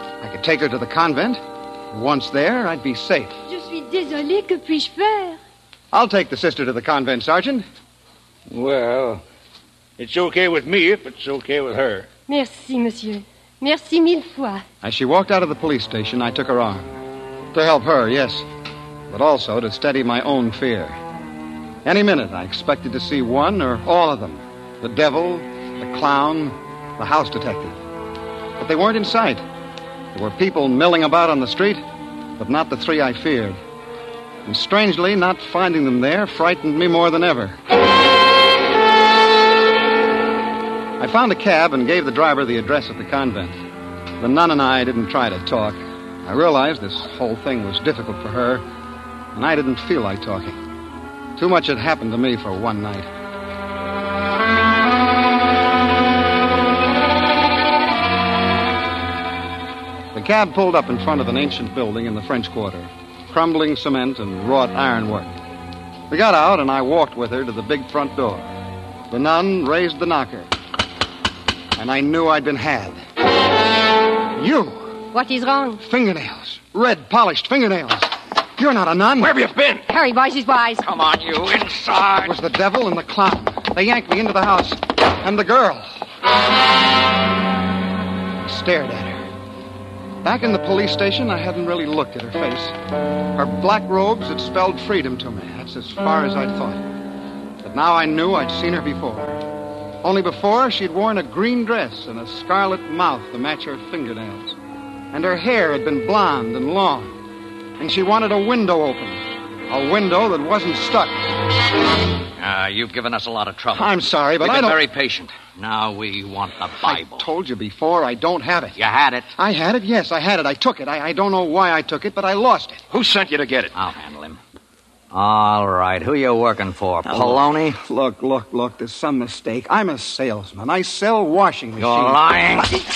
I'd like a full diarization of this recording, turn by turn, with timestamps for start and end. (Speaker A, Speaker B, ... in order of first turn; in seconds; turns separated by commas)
Speaker A: 0.2-3.4, Speaker B: 3.5-5.4, Speaker A: 5.9-7.7, Speaker C: 8.5-9.2, Speaker C: 10.0-12.1, Speaker B: 12.3-14.6, Speaker A: 14.8-16.9, Speaker A: 17.5-18.5, Speaker A: 19.1-21.0, Speaker A: 21.8-27.8, Speaker A: 28.6-29.4, Speaker A: 30.1-31.8, Speaker A: 32.4-33.6, Speaker A: 34.4-37.5, Speaker A: 41.0-43.6, Speaker A: 44.2-48.6, Speaker A: 49.3-50.6, Speaker A: 51.4-53.1, Speaker A: 60.1-65.3, Speaker A: 66.1-68.5, Speaker A: 69.1-70.5, Speaker A: 71.8-73.0, Speaker A: 74.3-75.0, Speaker B: 75.1-75.8, Speaker A: 75.8-79.5, Speaker D: 79.2-79.9, Speaker B: 79.9-80.8, Speaker D: 80.8-82.3, Speaker A: 82.2-86.0, Speaker A: 88.4-89.2, Speaker A: 90.2-92.8, Speaker A: 93.3-96.8, Speaker A: 97.6-99.4, Speaker A: 100.0-104.5, Speaker A: 105.1-107.1, Speaker A: 107.8-111.2, Speaker D: 112.4-117.3, Speaker A: 113.7-114.8, Speaker A: 116.8-118.8, Speaker D: 118.7-119.3, Speaker A: 119.3-122.8, Speaker D: 123.7-124.4, Speaker D: 125.1-127.8, Speaker A: 127.0-132.2, Speaker D: 131.8-132.8